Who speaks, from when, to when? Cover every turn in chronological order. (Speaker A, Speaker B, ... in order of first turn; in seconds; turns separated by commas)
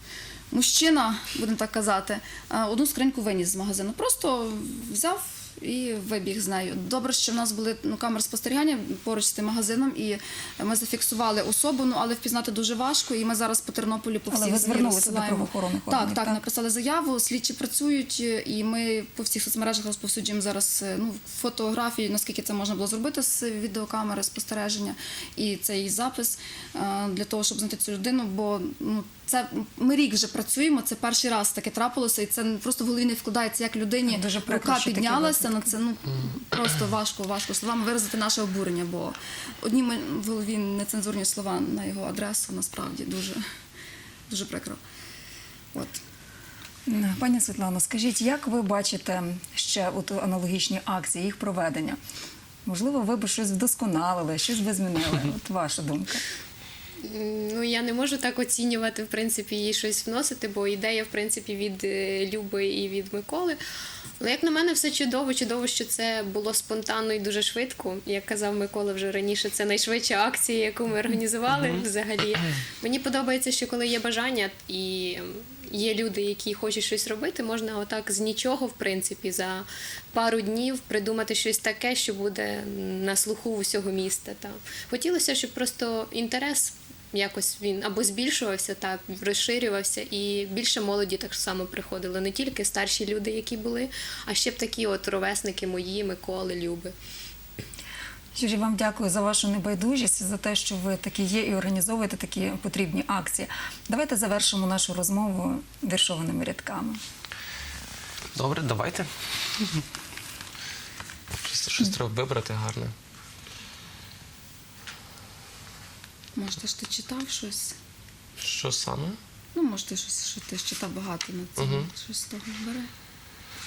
Speaker A: 0.5-43.4, Speaker B: 14.3-16.4, Speaker B: 34.1-35.7, Speaker A: 44.3-44.8, Speaker A: 45.7-46.0, Speaker B: 46.9-52.0, Speaker B: 52.6-56.2, Speaker C: 57.0-63.6, Speaker C: 64.2-96.9, Speaker B: 98.3-107.0, Speaker D: 108.3-109.1, Speaker D: 111.4-112.9, Speaker A: 116.4-117.8, Speaker D: 118.4-119.2, Speaker A: 119.5-122.9, Speaker D: 121.6-121.9